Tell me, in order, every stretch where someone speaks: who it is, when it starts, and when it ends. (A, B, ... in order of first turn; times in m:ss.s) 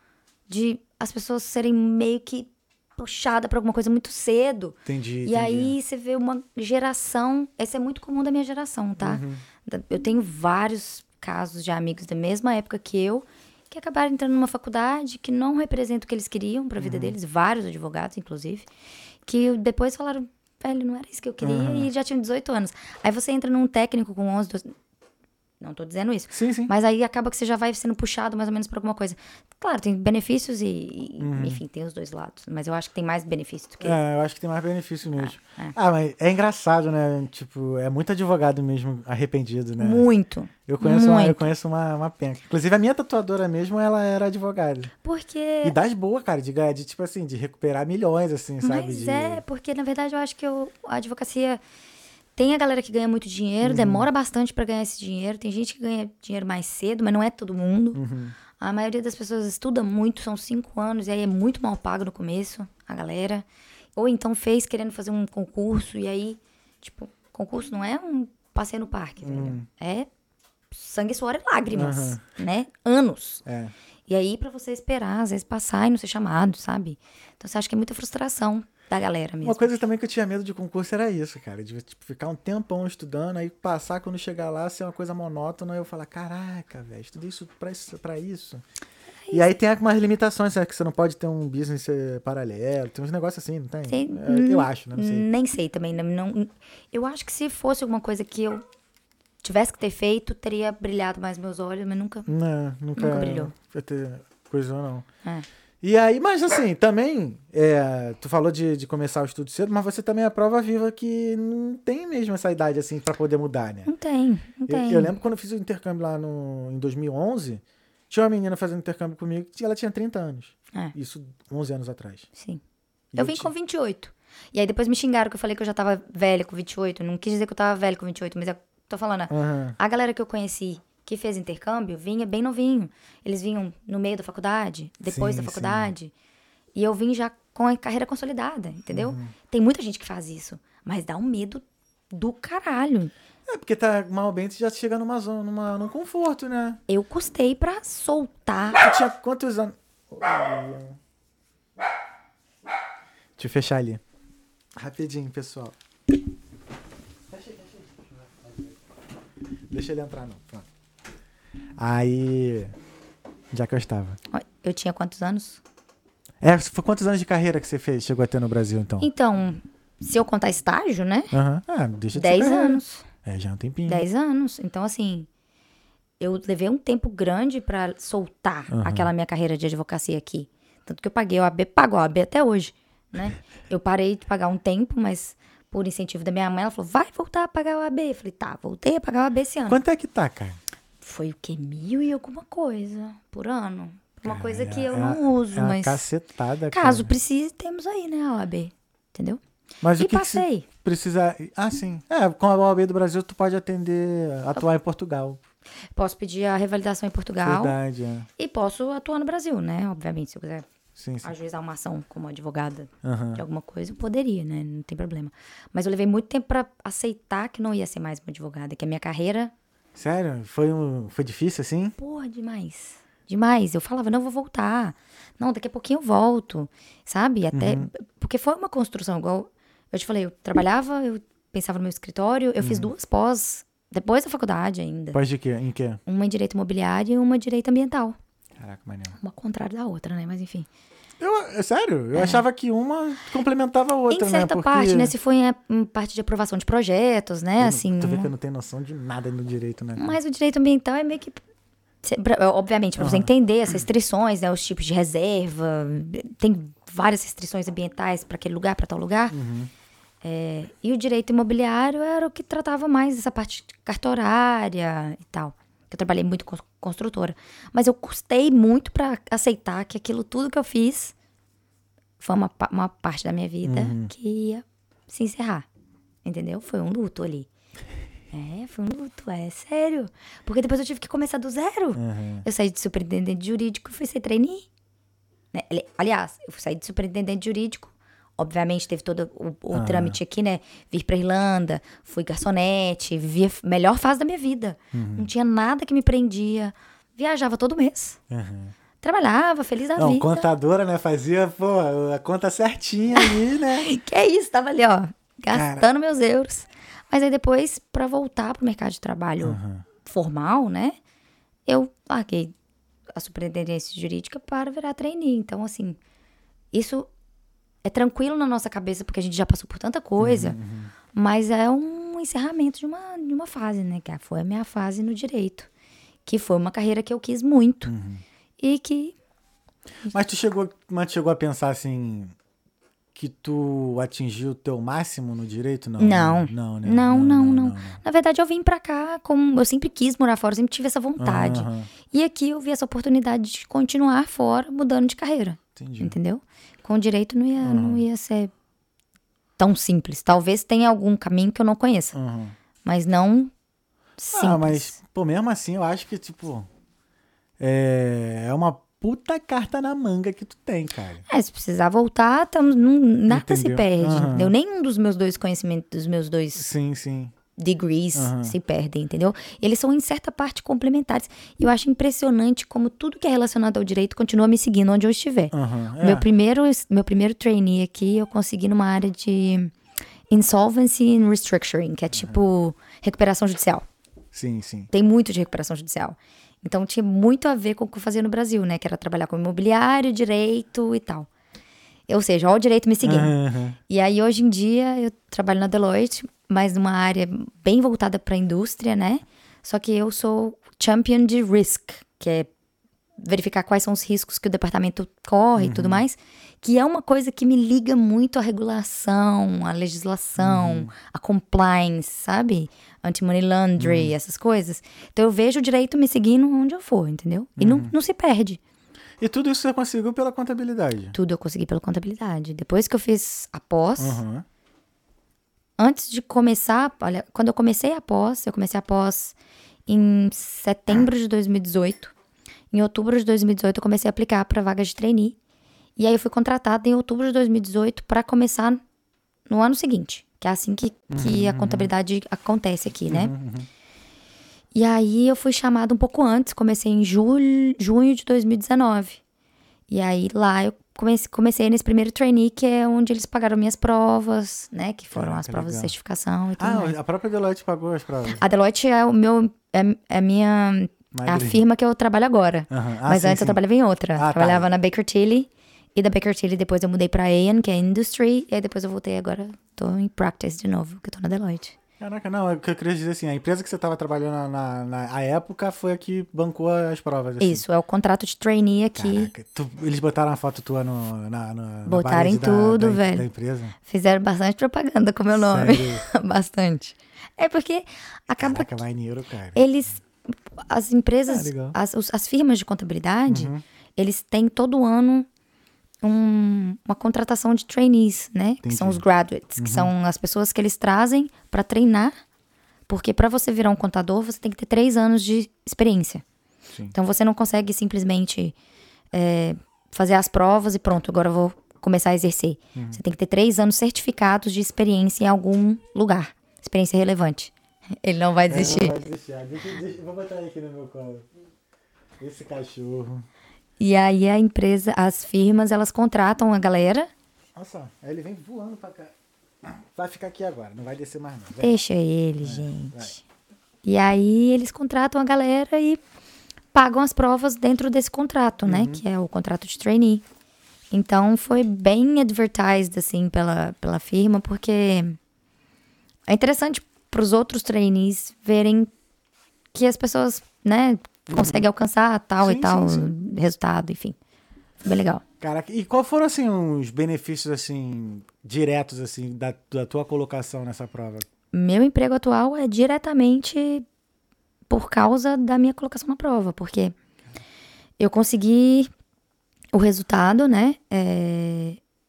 0:00.5-0:18.7 A
0:04.8-0:05.8 B
0:09.0-0:09.4 B
0:16.8-0:17.1 B
0:19.2-0:24.7 A
0:21.4-0:21.9 B
0:25.6-0:34.0 A
0:26.3-0:26.7 B
0:31.2-0:31.6 B
0:33.8-0:40.1 B
0:35.2-0:35.7 A
0:39.8-0:41.4 A
0:40.7-0:44.9 B
0:45.0-0:45.8 A
0:45.6-0:49.4 B
0:48.6-0:51.6 A
0:52.4-0:58.0 A
0:53.6-0:54.1 B
0:57.9-0:58.4 B
0:58.5-1:03.4 A
1:04.0-1:10.1 A
1:09.2-1:09.7 B
1:10.7-1:13.4 A
1:11.7-1:12.2 B
1:13.4-1:13.7 B
1:14.1-1:19.7 A
1:19.4-1:28.6 B
1:29.3-1:35.3 B
1:33.9-1:38.6 A
1:39.4-1:42.3 A
1:42.2-1:45.0 B
1:43.0-1:43.5 A
1:45.8-1:53.9 B
1:53.8-1:55.2 A
1:54.7-2:02.3 B
2:02.4-2:02.6 A
2:03.1-2:03.5 B
2:03.2-2:16.1 A
2:09.3-2:09.8 B
2:15.0-2:15.9 B
2:16.7-2:23.1 A
2:18.9-2:19.3 B
2:23.5-2:26.8 B
2:26.9-2:28.9 A
2:28.8-2:31.0 B
2:33.4-2:34.0 B
2:34.8-2:35.7 B
2:37.3-2:38.7 B
2:39.7-2:40.6 B
2:41.8-2:42.7 B
2:43.5-2:44.2 B
2:44.3-2:45.6 A
2:46.4-2:49.1 B
2:49.0-2:51.3 A
2:51.3-2:54.0 B
2:52.1-2:53.0 A
2:53.9-2:55.3 A
2:56.2-3:09.8 A
2:58.7-2:59.1 B
3:09.7-3:10.6 B
3:11.0-3:16.0 A
3:14.2-3:17.1 B
3:16.7-3:19.4 A
3:19.8-3:25.4 B
3:20.0-3:20.7 A
3:25.9-3:27.8 A
3:27.4-3:28.3 B
3:28.4-3:30.6 A
3:31.0-3:31.3 B
3:31.2-3:39.5 A
3:33.0-3:33.4 B
3:39.9-3:42.0 B
3:42.0-3:55.2 A
3:47.5-3:47.9 B
3:52.6-3:52.9 B
3:55.1-3:56.0 B
3:56.0-3:58.2 A
3:58.6-3:59.2 B
3:59.2-4:00.7 A
4:01.2-4:05.1 B
4:02.1-4:02.4 A
4:04.1-4:08.3 A
4:07.6-4:10.2 B
4:10.0-4:11.4 A
4:12.0-4:19.3 A
4:13.0-4:13.3 B
4:19.3-4:19.7 B
4:20.2-4:31.1 A
4:32.2-4:35.6 A
4:33.6-4:34.1 B
4:36.2-4:37.5 A
4:38.3-4:44.7 A
4:42.0-4:42.4 B
4:45.5-4:58.2 A
4:49.7-4:50.2 B
4:54.9-4:55.3 B
4:58.3-4:58.7 B
4:59.0-5:00.5 A
5:00.0-5:03.9 B
5:03.2-5:11.0 A
5:05.5-5:05.9 B
5:09.4-5:09.8 B
5:11.6-5:12.5 A
5:13.1-5:16.0 A
5:16.7-5:17.1 A
5:17.8-5:20.6 A
5:20.2-5:20.9 B
5:21.1-5:25.7 A
5:26.2-5:27.9 A
5:27.8-5:28.2 B
5:28.6-5:29.1 A
5:30.1-5:32.3 B
5:33.1-5:38.0 B
5:36.0-5:48.5 A
5:41.2-5:41.9 B
5:45.7-5:46.2 B
5:47.6-5:48.0 B
5:49.6-5:52.1 A
5:52.1-5:52.5 B
5:52.8-5:53.5 A
5:54.2-5:54.9 A
5:54.3-5:56.7 B
5:57.6-6:01.2 B
6:01.3-6:06.7 A
6:03.3-6:04.5 B
6:06.5-6:07.3 B
6:07.6-6:19.7 A
6:08.1-6:08.6 B
6:15.5-6:16.3 B
6:20.3-6:23.8 A
6:22.1-6:22.4 B
6:24.3-6:24.9 B
6:24.9-6:31.3 A
6:32.1-6:33.3 A
6:33.0-6:33.8 B
6:33.9-6:42.5 A
6:43.2-6:58.6 A
6:45.6-6:46.0 B
6:50.4-6:50.9 B
6:53.8-6:54.1 B
6:57.6-6:57.9 B
6:59.2-7:01.2 B
7:01.1-7:04.2 A
7:04.0-7:04.4 B
7:05.8-7:09.3 A
7:09.9-7:12.1 A
7:12.7-7:15.4 A
7:16.0-7:18.8 A
7:19.5-7:23.3 A
7:21.1-7:21.9 B
7:23.1-7:23.7 B
7:24.7-7:29.2 A
7:29.9-7:36.9 A
7:35.1-7:35.9 B
7:36.6-7:38.4 B
7:38.4-7:51.8 A
7:41.1-7:41.6 B
7:42.7-7:43.6 B
7:44.1-7:44.7 B
7:52.0-7:57.6 B
7:57.4-7:59.3 A
7:59.0-8:03.8 B
8:01.8-8:03.2 A
8:03.8-8:08.8 A
8:05.3-8:06.0 B
8:08.4-8:09.6 B
8:09.5-8:15.3 A
8:11.3-8:11.8 B
8:13.3-8:13.6 B
8:16.0-8:22.1 A
8:18.6-8:19.0 B
8:19.6-8:19.9 B
8:22.9-8:26.2 A
8:26.9-8:28.5 A
8:29.1-8:39.0 A
8:32.7-8:33.0 B
8:38.5-8:41.2 B
8:42.2-8:43.2 B
8:43.8-8:47.1 A
8:47.6-8:49.1 B
8:49.6-8:51.8 B
8:51.6-8:53.2 A
8:52.4-8:53.2 B
8:53.8-8:56.0 A
8:56.7-9:00.2 A
8:58.6-8:59.0 B
9:00.9-9:05.2 A
9:06.3-9:08.9 A
9:09.7-9:14.2 A
9:11.3-9:11.6 B
9:12.4-9:13.1 B
9:14.8-9:15.2 A
9:15.4-9:21.2 B
9:21.5-9:23.8 A
9:24.7-9:26.9 A
9:28.0-9:28.9 A
9:29.7-9:31.8 A